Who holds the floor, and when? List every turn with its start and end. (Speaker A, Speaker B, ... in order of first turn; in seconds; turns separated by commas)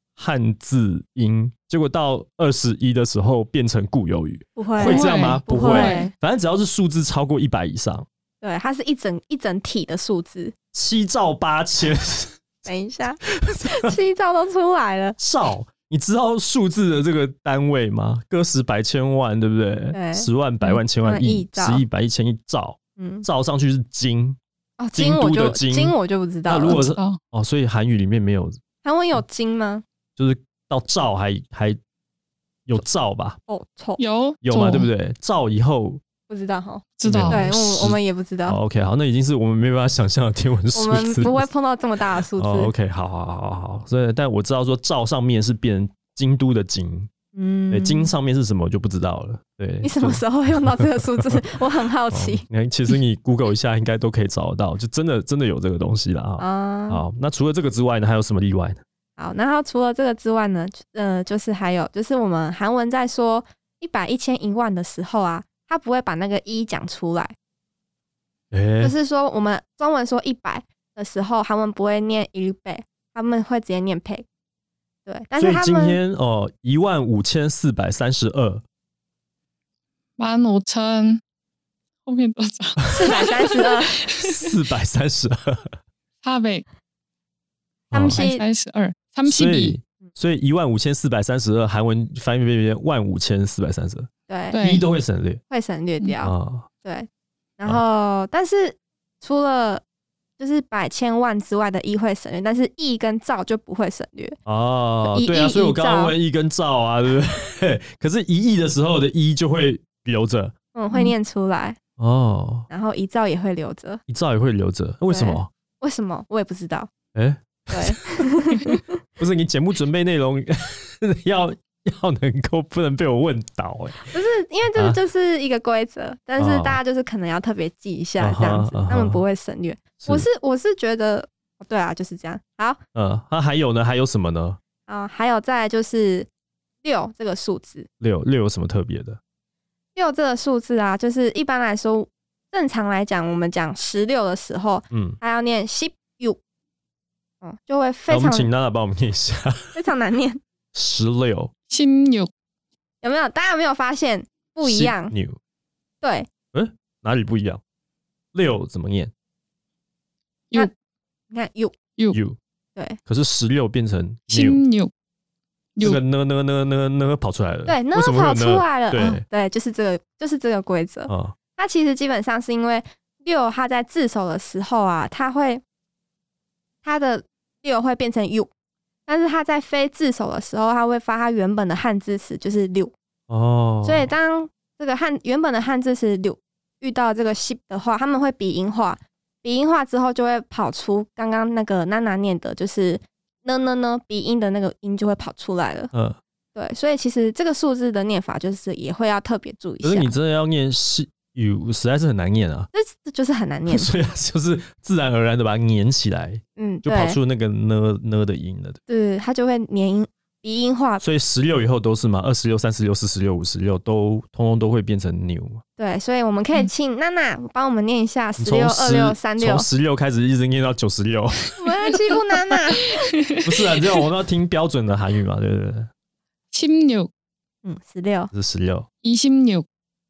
Speaker A: 0.2-8.1, Speaker B: 4.6-6.1, Speaker C: 4.8-6.1, Speaker B: 8.4-10.5, Speaker A: 10.7-12.4, Speaker B: 12.7-15.2, Speaker A: 13.2-13.9, Speaker A: 15.2-24.4, Speaker B: 19.9-20.3, Speaker B: 21.0-21.8, Speaker B: 23.0-23.3, Speaker B: 24.8-26.9, Speaker A: 24.9-25.9, Speaker A: 26.5-28.6, Speaker C: 26.7-27.2, Speaker B: 28.8-29.8, Speaker A: 30.2-31.8, Speaker A: 32.7-33.4, Speaker B: 33.5-34.0, Speaker C: 34.0-34.9, Speaker A: 34.4-36.0, Speaker B: 36.3-38.6, Speaker C: 37.0-37.5, Speaker A: 37.0-41.5, Speaker B: 40.8-42.7, Speaker A: 42.4-47.1, Speaker B: 47.3-48.1, Speaker A: 47.7-51.4, Speaker B: 49.8-52.5, Speaker A: 52.1-58.8, Speaker B: 56.4-57.0, Speaker B: 59.2-67.3, Speaker A: 68.5-69.0, Speaker B: 68.8-74.2, Speaker B: 75.1-76.0, Speaker A: 75.4-78.6, Speaker C: 80.2-81.2, Speaker C: 82.0-84.5, Speaker B: 82.9-84.0, Speaker A: 84.2-85.7, Speaker C: 86.2-86.6, Speaker A: 87.9-88.2, Speaker B: 87.9-88.4, Speaker C: 88.1-89.8, Speaker A: 89.2-95.4, Speaker B: 94.3-94.6, Speaker C: 94.5-94.8, Speaker B: 95.5-99.8, Speaker A: 96.2-96.7, Speaker B: 100.4-104.4, Speaker A: 104.5-110.5, Speaker B: 105.1-106.2, Speaker B: 110.7-111.8, Speaker A: 112.0-112.7, Speaker B: 112.7-114.0, Speaker A: 114.1-115.5, Speaker B: 115.1-116.9, Speaker A: 117.2-118.0, Speaker B: 117.7-119.0, Speaker A: 119.2-124.1, Speaker B: 124.1-132.8, Speaker A: 124.8-125.0, Speaker A: 126.4-126.8, Speaker A: 128.2-129.2, Speaker A: 130.0-130.3, Speaker A: 132.9-134.6, Speaker B: 134.9-136.3, Speaker B: 136.8-137.9, Speaker A: 138.0-139.2, Speaker B: 139.9-146.4, Speaker A: 144.9-145.2, Speaker B: 147.4-148.5, Speaker A: 148.1-149.8, Speaker B: 149.7-150.4, Speaker A: 150.7-151.5, Speaker C: 151.7-152.3, Speaker B: 153.0-155.1, Speaker A: 154.6-155.4, Speaker B: 156.0-156.3, Speaker A: 156.5-157.6, Speaker A: 158.3-159.1, Speaker B: 161.3-161.7, Speaker A: 162.1-162.4, Speaker A: 163.1-164.6, Speaker C: 164.3-164.9, Speaker C: 165.8-166.0, Speaker A: 165.8-169.2, Speaker B: 167.7-175.6, Speaker A: 171.1-171.3, Speaker B: 176.8-178.5, Speaker B: 179.1-182.9, Speaker A: 183.3-184.1, Speaker B: 183.8-195.9, Speaker A: 195.9-196.2, Speaker B: 196.6-200.1, Speaker A: 199.8-202.7, Speaker B: 202.7-203.9, Speaker A: 203.7-208.8, Speaker B: 206.6-207.2, Speaker B: 208.9-211.0, Speaker A: 211.0-215.6, Speaker B: 215.8-219.7, Speaker A: 218.4-221.6, Speaker B: 221.6-222.9, Speaker C: 223.0-223.4, Speaker A: 223.4-225.9, Speaker C: 226.5-227.1, Speaker B: 227.6-228.3, Speaker A: 228.3-228.9, Speaker C: 229.0-229.7